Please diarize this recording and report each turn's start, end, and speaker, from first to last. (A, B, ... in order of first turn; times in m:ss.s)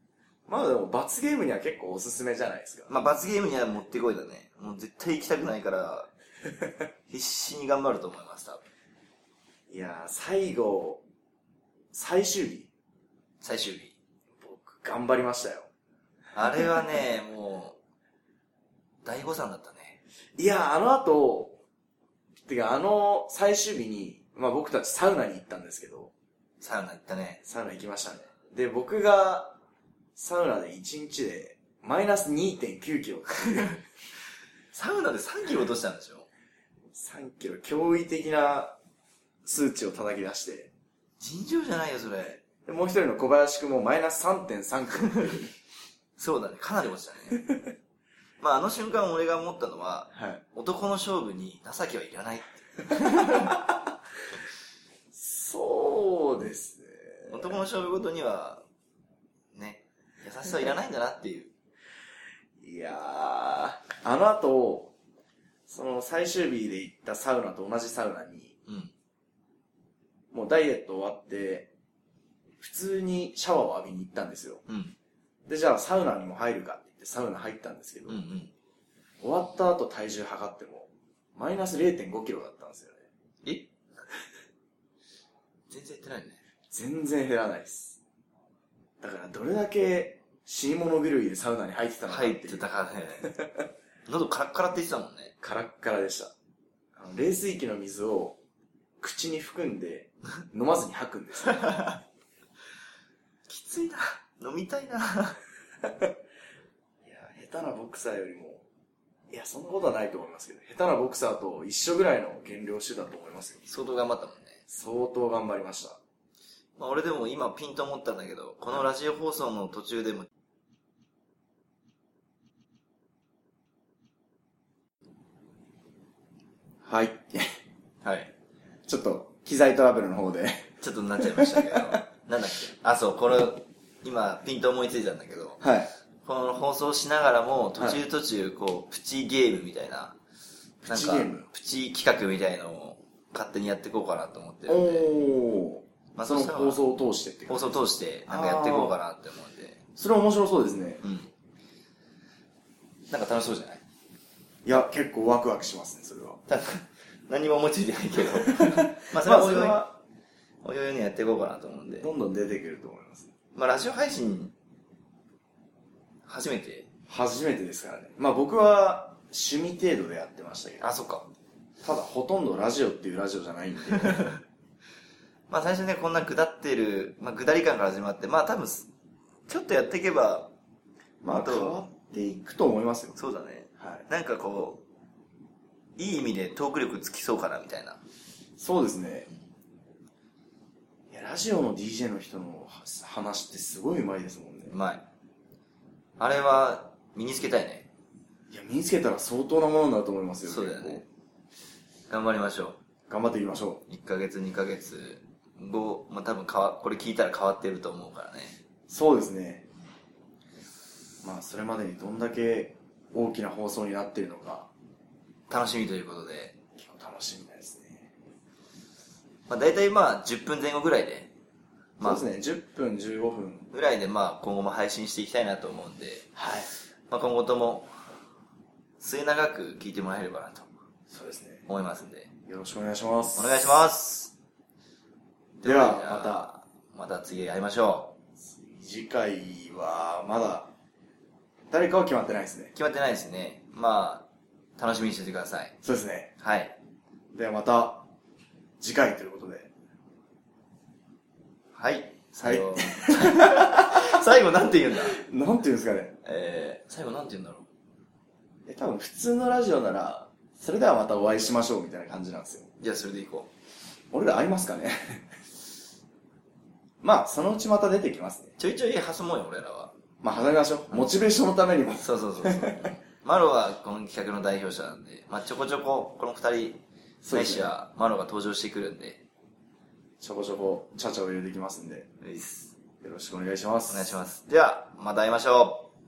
0:00.5-0:02.9 A
0:02.9-0:06.1 B
0:07.1-0:08.6 B
0:09.7-0:11.0 A
0:11.9-0:12.7 A
0:13.4-0:14.0 B
0:14.4-0:15.7 A
0:16.3-0:17.8 B
0:19.0-0:20.0 B
0:20.4-0:21.6 A
0:22.4-0:26.1 A
0:26.6-0:27.4 B
0:27.4-0:29.6 A
0:30.2-0:33.8 A
0:34.7-0:36.3 B
0:36.9-0:38.8 A
0:39.4-0:40.7 A
0:41.2-0:42.4 B
0:42.7-0:45.5 A
0:46.2-0:47.4 B
0:47.4-0:47.7 A
0:48.4-0:53.6 B
0:50.1-0:50.4 A
0:55.1-0:57.6 A
0:57.3-0:58.6 B
0:59.5-1:01.5 B
1:02.6-1:04.9 A
1:05.7-1:08.6 A
1:08.7-1:08.9 B
1:10.3-1:11.7 A
1:12.6-1:14.6 A
1:14.7-1:15.0 B
1:15.5-1:18.2 A
1:18.1-1:18.5 B
1:19.2-1:23.1 A
1:23.4-1:23.7 B
1:25.7-1:26.4 B
1:26.7-1:28.0 A
1:29.0-1:32.7 A
1:32.1-1:33.4 B
1:33.2-1:33.6 A
1:34.1-1:35.4 B
1:35.4-1:36.3 A
1:37.0-1:38.4 A
1:39.0-1:41.6 A
1:41.6-1:42.0 B
1:43.5-1:45.4 B
1:47.0-1:48.6 A
1:49.3-1:53.7 A
1:53.7-1:54.6 B
1:54.7-1:56.0 A
1:56.8-2:00.3 B
2:06.8-2:07.5 A
2:08.0-2:08.3 B
2:08.9-2:10.7 A
2:10.8-2:15.6 B
2:11.3-2:12.0 A
2:15.6-2:15.9 A
2:16.2-2:20.2 B
2:20.8-2:21.5 A
2:20.9-2:25.1 B
2:24.7-2:29.0 A
2:26.2-2:26.8 B
2:27.5-2:29.8 B
2:30.0-2:31.0 A
2:31.0-2:31.3 B
2:33.1-2:33.8 B
2:34.6-2:36.4 A
2:36.5-2:40.0 B
2:38.4-2:39.9 A
2:40.6-2:42.1 B
2:42.0-2:43.3 A
2:43.6-2:44.5 B
2:46.3-2:46.9 B
2:47.1-2:50.8 A
2:50.8-2:51.3 B
2:51.8-2:54.3 A
2:55.5-2:58.9 B
2:59.5-3:00.5 B
3:01.2-3:03.2 A
3:01.3-3:01.8 B
3:03.2-3:04.8 B
3:03.8-3:04.0 A
3:06.0-3:08.0 B
3:08.6-3:09.3 A
3:11.1-3:14.8 A
3:14.7-3:15.1 B
3:16.2-3:17.9 B
3:18.5-3:21.0 A
3:20.4-3:21.0 B
3:22.1-3:22.8 B
3:23.1-3:23.8 A
3:23.9-3:28.6 B
3:28.9-3:29.7 A
3:31.2-3:34.7 A
3:35.5-3:36.6 B
3:36.8-3:38.1 A
3:39.5-3:41.3 B
3:42.0-3:42.2 B
3:42.0-3:43.7 A
3:43.7-3:46.3 B
3:46.4-3:46.7 A
3:47.1-3:47.9 B
3:49.0-3:50.7 B
3:51.1-3:51.7 A
3:51.7-3:52.3 B
3:52.5-3:53.6 A
3:53.4-3:54.3 B
3:55.6-3:58.2 B
3:55.6-3:56.6 A
3:58.4-4:00.7 A
4:01.7-4:02.7 A
4:02.8-4:05.8 B
4:05.8-4:06.3 A
4:06.4-4:06.8 B
4:07.3-4:08.1 A
4:08.8-4:09.7 A
4:11.7-4:15.2 B
4:12.4-4:14.0 A
4:15.1-4:16.2 A
4:16.2-4:17.7 B
4:18.7-4:22.7 A
4:22.8-4:23.5 B
4:24.1-4:25.2 A
4:27.0-4:28.6 A
4:28.6-4:29.9 B
4:30.2-4:33.0 A
4:30.9-4:31.2 B
4:32.0-4:39.2 B
4:37.2-4:37.7 A
4:40.2-4:42.1 A
4:42.2-4:42.7 B
4:43.0-4:44.2 A
4:43.9-4:45.9 B